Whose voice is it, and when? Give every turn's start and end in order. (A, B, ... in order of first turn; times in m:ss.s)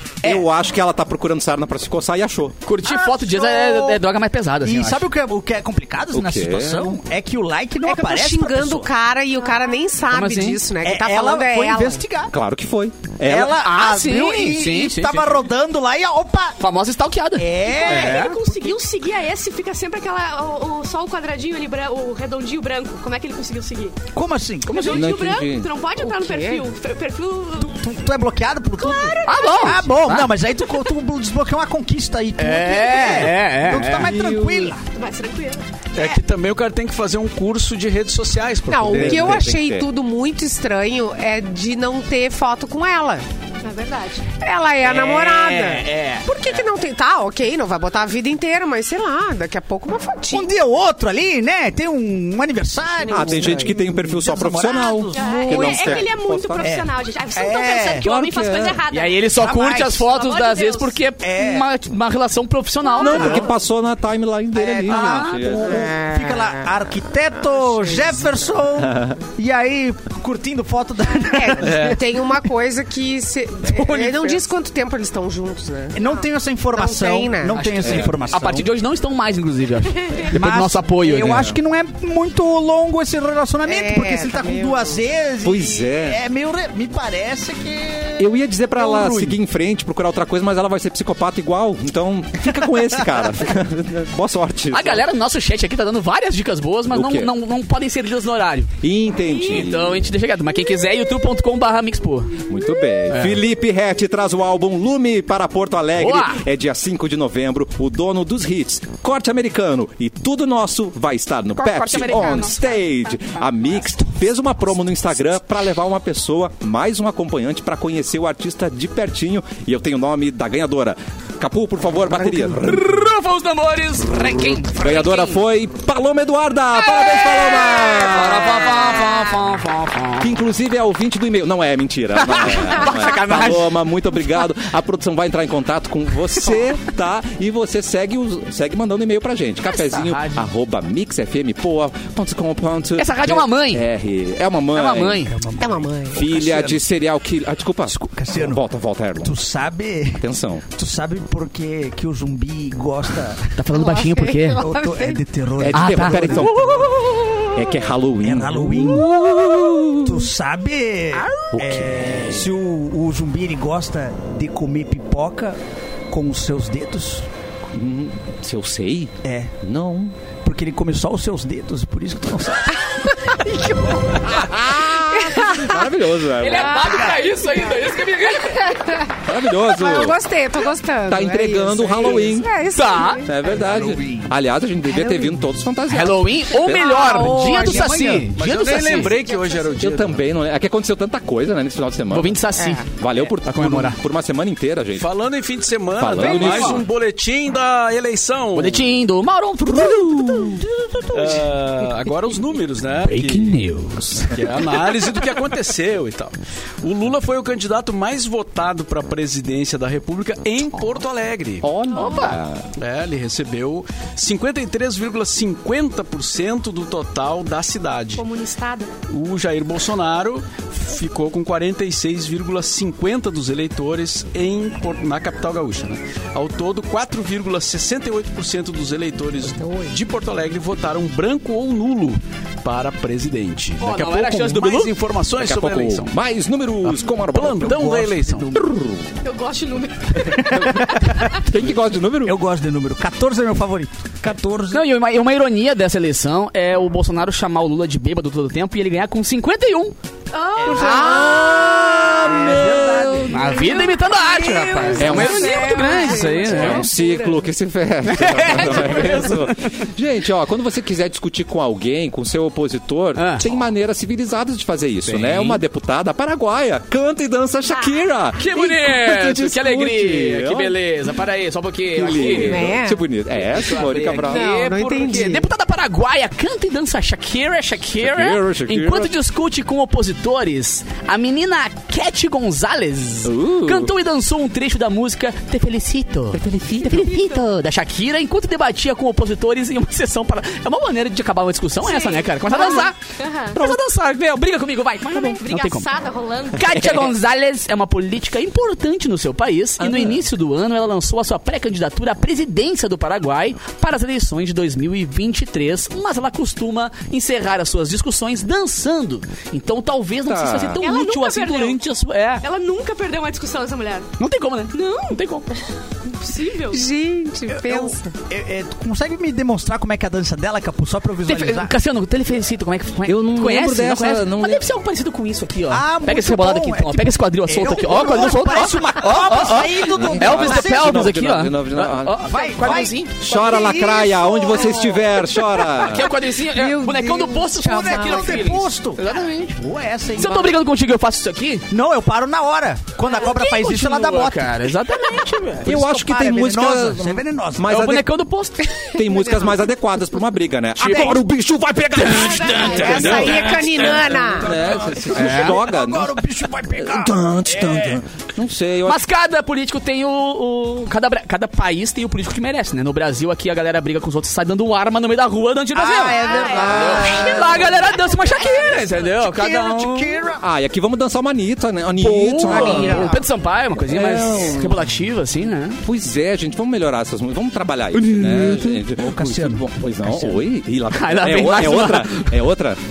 0:00.2-0:02.6 A
0:02.6-0:05.0 B
0:02.8-0:04.0 C
0:04.6-0:08.9 C
0:06.1-0:07.0 A
0:07.8-0:12.0 D
0:10.1-0:10.6 B
0:10.8-0:12.3 C
0:12.3-0:13.6 A
0:13.2-0:16.6 C
0:13.6-0:15.4 B
0:16.6-0:18.4 B
0:17.4-0:18.7 C
0:17.6-0:23.9 E
0:24.1-0:25.0 C
0:24.7-0:27.8 E
0:24.7-0:25.0 B
0:24.9-0:25.7 A
0:27.6-0:34.8 C
0:28.8-0:29.9 E
0:29.2-0:30.3 B
0:32.4-0:34.1 B
0:34.0-0:34.7 A
0:34.9-0:35.7 E
0:35.9-0:39.5 F
0:38.7-0:43.2 D
0:38.9-0:39.9 A
0:43.6-0:44.3 E
0:44.4-0:50.5 D
0:44.8-0:46.6 C
0:50.3-0:58.1 C
0:53.0-0:53.7 D
0:53.1-0:56.7 A
0:55.1-0:59.3 E
0:58.0-0:58.8 A
0:58.9-1:03.5 B
0:59.3-1:00.1 C
1:00.0-1:01.0 E
1:01.2-1:01.7 C
1:03.0-1:05.9 A
1:03.1-1:03.5 C
1:04.6-1:12.0 C
1:04.9-1:05.4 B
1:05.6-1:06.7 D
1:07.5-1:08.2 D
1:08.8-1:09.2 A
1:11.2-1:17.6 D
1:11.6-1:12.0 F
1:13.7-1:14.4 C
1:15.9-1:18.7 C
1:17.5-1:21.5 B
1:17.8-1:18.1 A
1:20.0-1:20.3 E
1:20.3-1:29.4 C
1:21.3-1:21.5 A
1:23.6-1:25.0 D
1:25.4-1:26.2 A
1:28.2-1:35.0 A
1:34.7-1:38.7 B
1:36.9-1:37.3 A
1:38.8-1:40.0 A
1:39.2-1:39.7 E
1:39.4-1:42.4 B
1:42.5-2:03.1 A
1:43.1-1:43.4 B
1:46.0-1:46.4 B
1:51.6-1:52.6 B
2:02.2-2:05.4 B
2:04.6-2:09.4 A
2:07.1-2:10.3 B
2:10.2-2:25.3 A
2:12.1-2:13.8 B
2:19.7-2:20.4 B
2:23.0-2:23.8 B
2:24.7-2:25.3 B
2:25.2-2:26.8 C
2:25.6-2:26.3 D
2:26.1-2:29.4 A
2:27.9-2:28.6 C
2:29.2-2:33.5 C
2:30.2-2:30.6 A
2:33.6-2:34.6 B
2:33.7-2:35.2 D
2:34.6-2:36.9 C
2:35.6-2:36.9 A
2:35.7-2:37.4 B
2:37.5-2:40.3 A
2:38.2-2:39.1 C
2:40.0-2:45.6 C
2:41.5-2:42.5 A
2:46.1-2:47.2 C
2:47.7-2:50.1 A
2:49.2-2:49.5 C
2:50.4-2:52.8 C
2:53.3-2:54.2 D
2:54.2-2:56.9 A
2:55.2-2:55.8 D
2:56.4-2:58.9 B
2:56.5-2:57.8 D
2:56.9-2:57.2 C
2:58.6-3:03.4 D
2:59.2-3:00.2 A
3:01.1-3:02.5 A
3:02.7-3:03.2 B
3:03.2-3:07.2 A
3:03.5-3:04.3 C
3:05.9-3:09.2 B
3:06.7-3:07.9 D
3:07.1-3:08.3 C
3:08.4-3:10.2 F
3:08.7-3:09.7 D
3:09.8-3:12.4 A
3:12.1-3:14.0 B
3:12.6-3:12.8 D
3:13.0-3:15.1 A
3:15.0-3:18.9 F
3:16.0-3:16.8 A
3:16.2-3:16.8 B
3:18.5-3:21.5 B
3:19.7-3:20.6 A
3:21.1-3:23.6 F
3:23.0-3:24.9 B
3:24.2-3:31.7 F
3:31.6-3:32.7 A
3:31.9-3:32.4 B
3:32.0-3:32.3 E
3:32.7-3:38.2 F
3:38.2-3:38.9 E
3:39.1-3:56.2 F
3:49.6-3:49.9 D
3:53.8-3:54.9 B
3:55.4-3:57.9 A
3:56.8-3:58.5 F
3:57.7-3:58.5 C
3:58.5-3:59.2 A
3:59.2-4:01.4 E
4:00.4-4:01.3 C
4:00.4-4:02.4 A
4:02.2-4:04.8 C
4:04.7-4:09.9 B
4:10.3-4:11.5 E
4:10.6-4:11.2 C
4:10.7-4:13.4 A
4:10.8-4:11.4 D
4:12.2-4:13.6 C
4:13.3-4:16.9 B
4:13.4-4:17.4 D
4:14.9-4:15.7 A
4:15.0-4:16.8 E
4:16.4-4:30.8 A
4:18.0-4:19.8 B
4:23.2-4:23.4 B
4:25.1-4:25.6 B
4:28.4-4:32.8 B
4:31.9-4:34.5 A
4:32.1-4:33.0 D
4:33.5-4:53.0 B
4:34.2-4:35.5 D
4:38.0-4:39.1 A
4:43.2-4:43.9 A
4:46.4-4:47.1 A
4:47.1-4:47.4 E
4:51.8-4:53.6 E
4:53.5-4:55.9 B
4:55.1-4:56.8 E
4:56.5-5:12.4 B
4:56.7-4:57.1 A
4:59.8-5:00.2 A
5:10.2-5:10.8 A
5:10.8-5:11.8 E
5:12.4-5:14.1 E
5:14.2-5:15.5 B
5:14.7-5:15.2 E
5:16.0-5:16.8 E
5:16.7-5:18.1 D
5:17.5-5:21.7 C
5:21.2-5:33.2 B
5:23.0-5:24.7 A
5:25.7-5:31.1 C
5:29.9-5:36.1 A
5:32.2-5:35.2 C
5:35.6-5:39.6 B
5:36.5-5:40.6 C
5:36.9-5:38.4 D
5:40.2-5:41.7 B
5:41.7-5:44.7 C
5:43.2-5:45.7 B
5:45.6-5:47.7 C
5:45.6-5:48.1 A
5:47.7-5:49.0 B
5:48.9-5:59.0 A
5:49.0-5:49.6 D
5:50.8-5:51.2 B
5:50.8-5:51.2 C
5:52.0-5:54.0 B
5:52.2-5:52.7 E
5:52.3-5:53.5 C
5:52.5-5:54.7 D
5:54.0-5:54.4 C
5:55.1-5:55.6 B
5:55.1-5:58.0 C
5:58.8-6:10.1 B
6:05.7-6:07.7 C
6:06.2-6:08.8 E
6:06.5-6:07.4 A
6:09.0-6:10.4 C
6:10.4-6:13.2 A
6:12.0-6:15.8 B
6:12.4-6:13.2 C
6:13.7-6:14.8 A
6:15.8-6:22.8 A
6:17.9-6:18.8 B
6:18.9-6:20.4 C
6:20.9-6:22.4 B